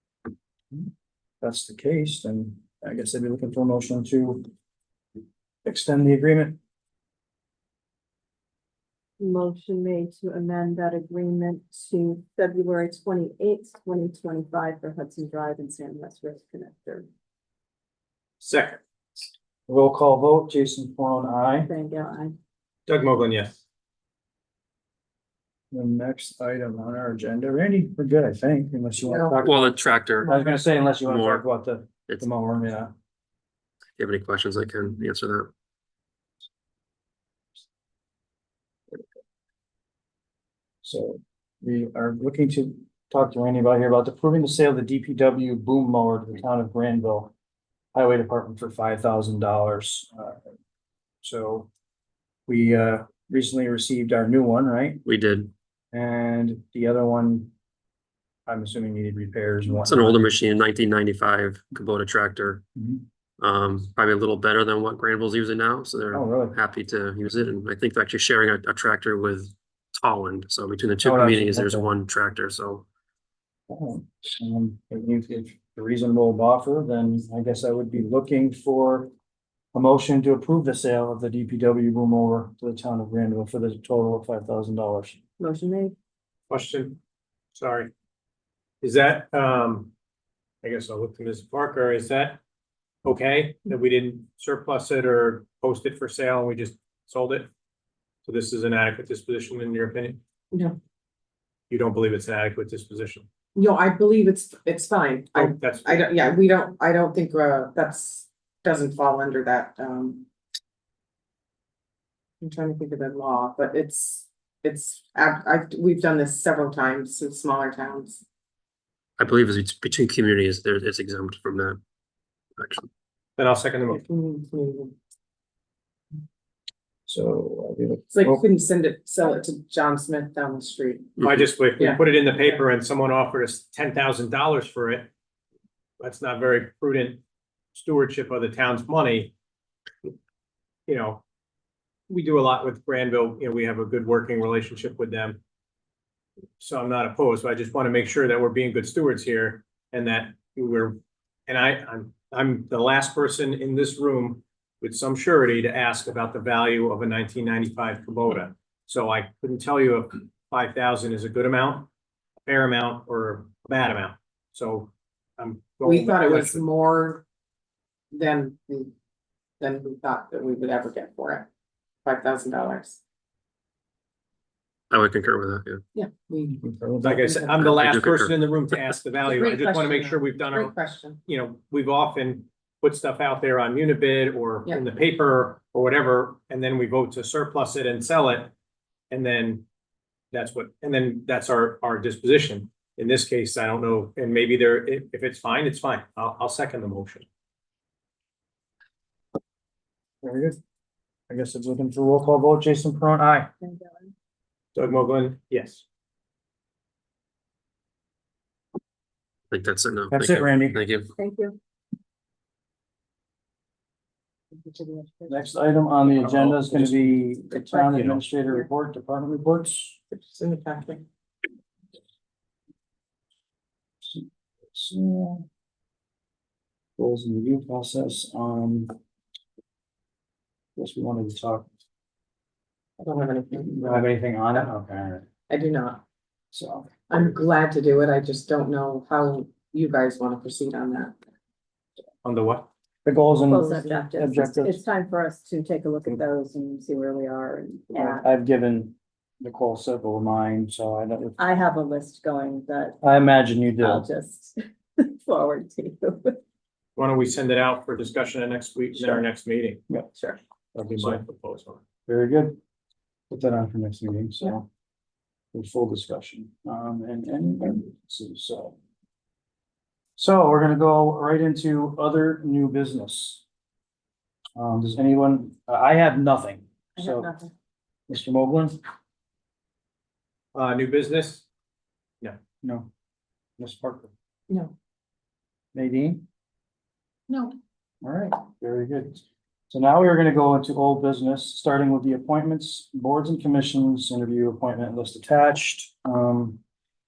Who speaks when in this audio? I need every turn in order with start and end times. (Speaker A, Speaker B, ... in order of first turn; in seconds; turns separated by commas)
Speaker A: 1.4-4.5, Speaker A: 5.6-6.6, Speaker B: 9.2-17.1, Speaker C: 18.4-18.8, Speaker A: 19.7-21.7, Speaker B: 21.6-22.4, Speaker C: 22.9-23.6, Speaker A: 25.7-32.9, Speaker D: 29.1-29.4, Speaker E: 29.4-30.3, Speaker E: 31.0-31.4, Speaker E: 34.0-35.5, Speaker A: 40.8-47.3, Speaker A: 47.9-50.4, Speaker A: 51.2-51.7, Speaker A: 52.5-55.0, Speaker E: 55.0-55.5, Speaker A: 55.9-57.5, Speaker A: 58.5-60.3, Speaker E: 59.7-62.6, Speaker A: 62.8-63.0, Speaker E: 63.4-72.8, Speaker A: 66.1-66.6, Speaker A: 71.0-71.9, Speaker A: 73.7-79.1, Speaker A: 79.7-85.2, Speaker B: 85.4-85.9, Speaker C: 86.5-87.0, Speaker C: 87.5-87.9, Speaker C: 88.8-89.9, Speaker C: 90.6-92.4, Speaker C: 93.0-97.5, Speaker C: 98.2-100.2, Speaker D: 100.5-100.8, Speaker C: 101.7-103.2, Speaker D: 103.5-110.2, Speaker C: 105.3-106.1, Speaker D: 112.4-118.2, Speaker E: 119.2-121.8, Speaker E: 122.6-122.9, Speaker C: 123.4-124.0, Speaker D: 123.9-124.9, Speaker A: 127.1-128.4, Speaker D: 128.1-132.6, Speaker C: 131.2-135.1, Speaker C: 136.0-137.2, Speaker C: 137.7-139.3, Speaker C: 140.9-141.2, Speaker C: 142.1-145.4, Speaker C: 146.6-161.9, Speaker C: 162.4-166.6, Speaker D: 165.8-167.2, Speaker D: 168.1-168.9, Speaker D: 169.6-171.5, Speaker D: 172.0-173.0, Speaker E: 174.9-175.8, Speaker D: 175.9-176.6, Speaker A: 176.6-177.2, Speaker C: 177.0-188.5, Speaker D: 177.2-177.8, Speaker E: 177.6-178.4, Speaker D: 179.2-181.2, Speaker C: 189.1-189.6, Speaker C: 190.3-197.2, Speaker A: 200.2-200.6, Speaker A: 201.3-203.5, Speaker B: 203.6-204.1, Speaker C: 204.7-205.8, Speaker E: 209.5-211.1, Speaker A: 210.1-210.8, Speaker B: 211.1-211.6, Speaker B: 214.5-215.4, Speaker A: 215.3-220.0, Speaker C: 216.2-217.2, Speaker B: 217.5-218.7, Speaker D: 220.1-221.0, Speaker A: 224.0-225.4, Speaker A: 227.0-228.9, Speaker A: 230.8-231.7, Speaker D: 233.0-234.0, Speaker A: 233.6-235.2, Speaker D: 235.5-236.0, Speaker A: 236.5-236.9, Speaker D: 237.1-241.1, Speaker C: 242.2-242.7, Speaker A: 243.0-244.8, Speaker B: 243.5-248.3, Speaker A: 247.9-251.4, Speaker B: 251.4-253.0, Speaker A: 253.0-254.1, Speaker B: 253.8-256.4, Speaker C: 256.9-259.8, Speaker B: 260.1-260.4, Speaker A: 260.8-261.2, Speaker C: 260.8-261.8, Speaker A: 262.1-262.6, Speaker A: 263.3-264.7, Speaker A: 265.5-268.8, Speaker A: 270.2-273.4, Speaker A: 274.6-277.4, Speaker D: 277.0-277.5, Speaker A: 278.1-278.8, Speaker C: 280.5-281.4, Speaker A: 282.6-282.9, Speaker A: 283.6-284.1, Speaker A: 285.7-286.2, Speaker D: 287.3-287.6, Speaker A: 288.0-296.6